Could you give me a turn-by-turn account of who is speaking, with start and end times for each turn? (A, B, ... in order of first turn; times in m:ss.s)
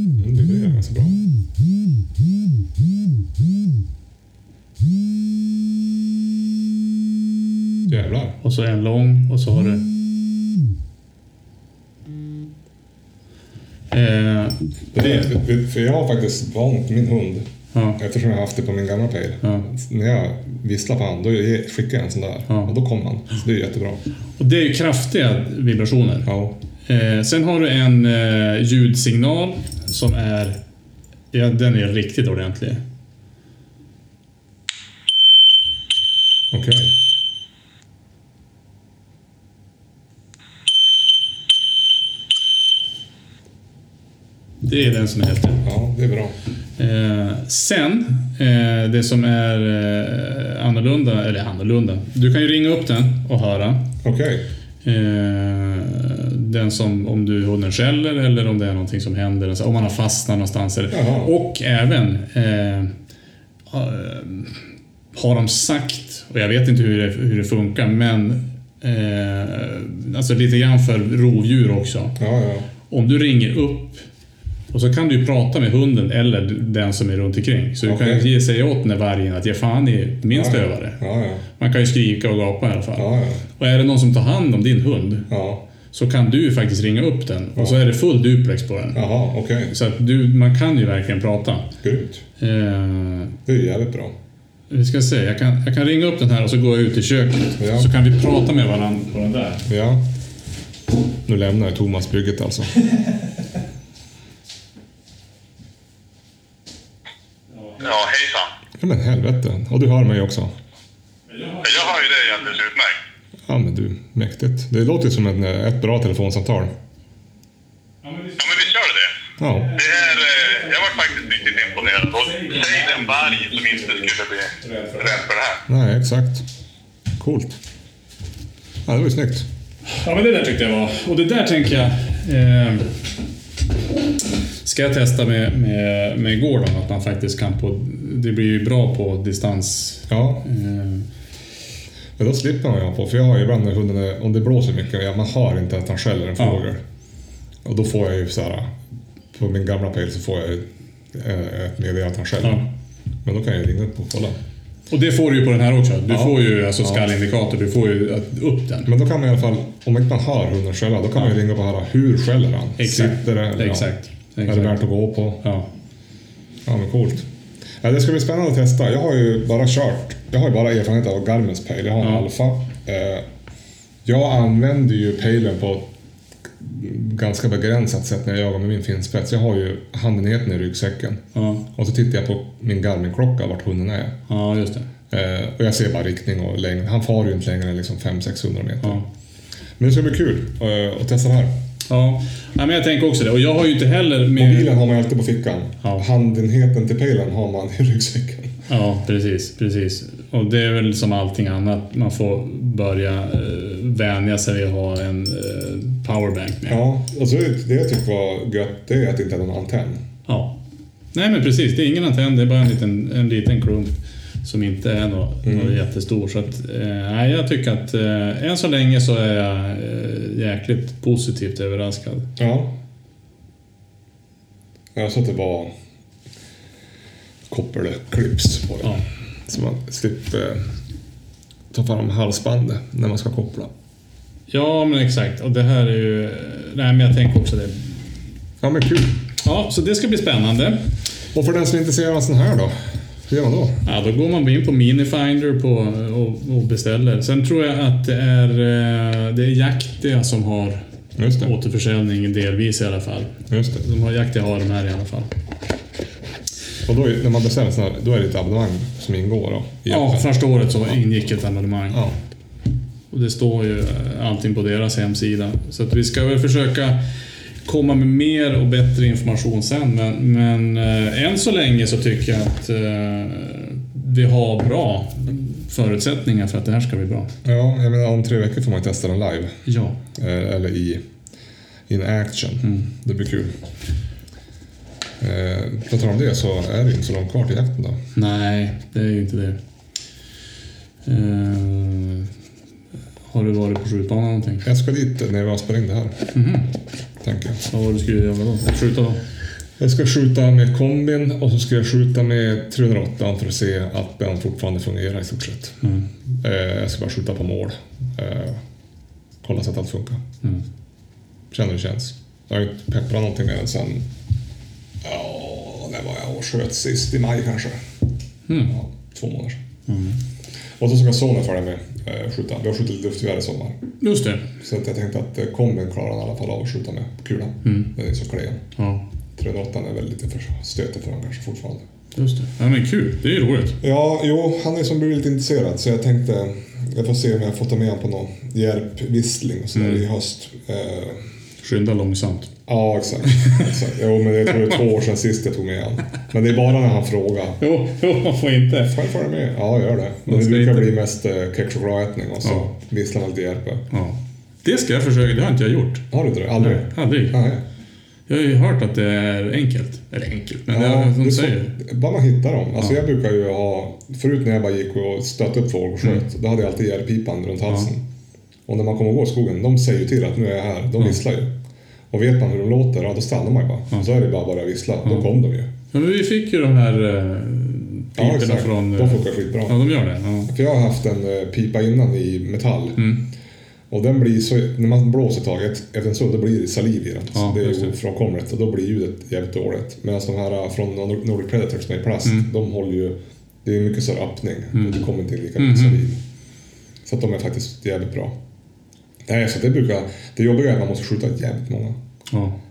0:00.2-0:01.2 A
0:07.9-0:08.4 A
0:08.4-0:09.9 B
0:13.9-0:15.3 B
0:14.9-0:24.0 A
0:17.7-0:18.0 B
0:19.4-0:19.7 B
0:22.5-0:22.7 B
0:24.4-0:26.3 B
0:26.2-0:26.6 A
0:26.8-0:30.6 B
0:31.3-0:32.8 B
0:36.5-0:36.9 A
0:44.6-0:45.6 B
0:45.6-0:46.4 A
0:46.8-0:53.9 B
0:54.0-0:54.4 A
0:54.8-1:02.9 B
1:00.9-1:01.3 A
1:03.7-1:04.6 B
1:05.1-1:12.2 B
1:12.2-1:12.7 A
1:12.9-1:14.0 B
1:14.7-1:21.0 B
1:17.8-1:18.3 A
1:20.3-1:21.4 A
1:21.6-1:25.3 B
1:23.0-1:23.4 A
1:25.3-1:25.6 A
1:25.9-1:29.0 B
1:28.9-1:29.7 A
1:29.7-1:31.7 B
1:31.8-1:32.2 A
1:32.4-1:33.4 B
1:33.4-1:34.1 A
1:34.7-1:39.6 B
1:37.6-1:37.9 A
1:39.6-1:40.0 A
1:41.2-1:42.7 A
1:47.8-1:48.5 C
1:48.8-1:50.5 A
1:51.3-1:52.4 B
1:51.6-1:53.0 C
1:53.4-1:56.7 A
1:58.0-1:58.6 B
1:58.4-1:59.1 C
1:59.4-1:59.7 A
1:59.4-2:05.2 B
1:59.8-2:05.6 C
2:05.7-2:06.4 A
2:07.2-2:07.6 A
2:08.8-2:09.5 A
2:09.9-2:13.0 B
2:14.6-2:21.0 B
2:20.1-2:20.4 A
2:22.2-2:26.8 A
2:27.6-2:28.7 A
2:29.3-2:32.6 A
2:32.4-2:32.7 B
2:33.2-2:34.4 A
2:34.9-2:38.9 B
2:36.1-2:37.1 A
2:38.9-2:43.9 A
2:42.8-2:44.8 B
2:44.4-2:45.4 A
2:45.4-2:45.7 B
2:46.6-2:47.3 A
2:47.8-2:53.2 A
2:52.0-2:52.3 B
2:54.0-2:55.9 A
2:56.6-3:04.2 A
3:01.3-3:01.7 B
3:04.3-3:04.9 B
3:05.1-3:09.0 A
3:09.8-3:11.6 A
3:11.9-3:14.7 B
3:14.4-3:18.5 A
3:18.7-3:26.8 B
3:26.7-3:30.0 A
3:30.3-3:30.6 B
3:31.1-3:42.3 B
3:35.4-3:35.8 A
3:42.4-3:42.7 A
3:44.9-3:45.7 A
3:47.5-3:50.7 A
3:51.7-3:53.7 A
3:54.5-3:58.0 B
3:58.6-3:59.2 A
3:59.4-4:00.9 B
4:01.3-4:03.8 A
4:03.8-4:10.8 B
4:11.2-4:11.5 A
4:11.3-4:15.3 B
4:13.5-4:13.8 A
4:16.8-4:20.3 A
4:19.9-4:22.0 B
4:21.9-4:22.2 A
4:23.1-4:27.0 B
4:27.6-4:37.3 B
4:37.4-4:39.6 A
4:39.6-4:40.0 B
4:40.1-4:41.0 A
4:41.9-4:43.6 A
4:42.6-4:42.9 B
4:45.2-4:48.0 A
4:48.1-4:49.6 B
4:51.0-4:52.3 B
4:53.3-4:54.7 B
4:54.6-4:56.2 A
4:56.3-4:56.7 B
4:57.2-4:57.6 A
4:57.7-4:59.2 B
4:59.8-5:05.8 A
5:06.4-5:08.6 A
5:09.4-5:10.2 A
5:11.5-5:14.0 A
5:15.0-5:17.8 A
5:18.5-5:18.7 B
5:18.6-5:19.6 A
5:19.9-5:20.2 B
5:20.8-5:23.8 A
5:24.0-5:24.5 B
5:24.6-5:28.6 A
5:27.6-5:27.9 B
5:28.8-5:29.0 B
5:29.4-5:31.8 A
5:32.2-5:33.8 B
5:33.8-5:41.2 A
5:39.7-5:40.0 B
5:41.6-5:42.5 B
5:42.7-5:47.6 A
5:43.4-5:43.7 B
5:47.6-5:49.0 B
5:48.9-5:53.8 A
5:50.3-5:50.9 B
5:52.4-5:52.7 B
5:53.9-5:56.0 B
5:56.1-5:57.6 A
5:56.6-5:57.4 B
5:58.3-6:01.8 B
6:00.7-6:08.0 A
6:08.7-6:11.5 A
6:12.1-6:15.7 A
6:15.9-6:20.5 B
6:18.2-6:19.8 A
6:20.5-6:23.1 A
6:23.0-6:23.2 B
6:23.9-6:36.2 A
6:27.3-6:27.9 B
6:35.6-6:36.0 B
6:37.0-6:38.4 A
6:39.2-6:42.0 A
6:42.3-6:42.6 B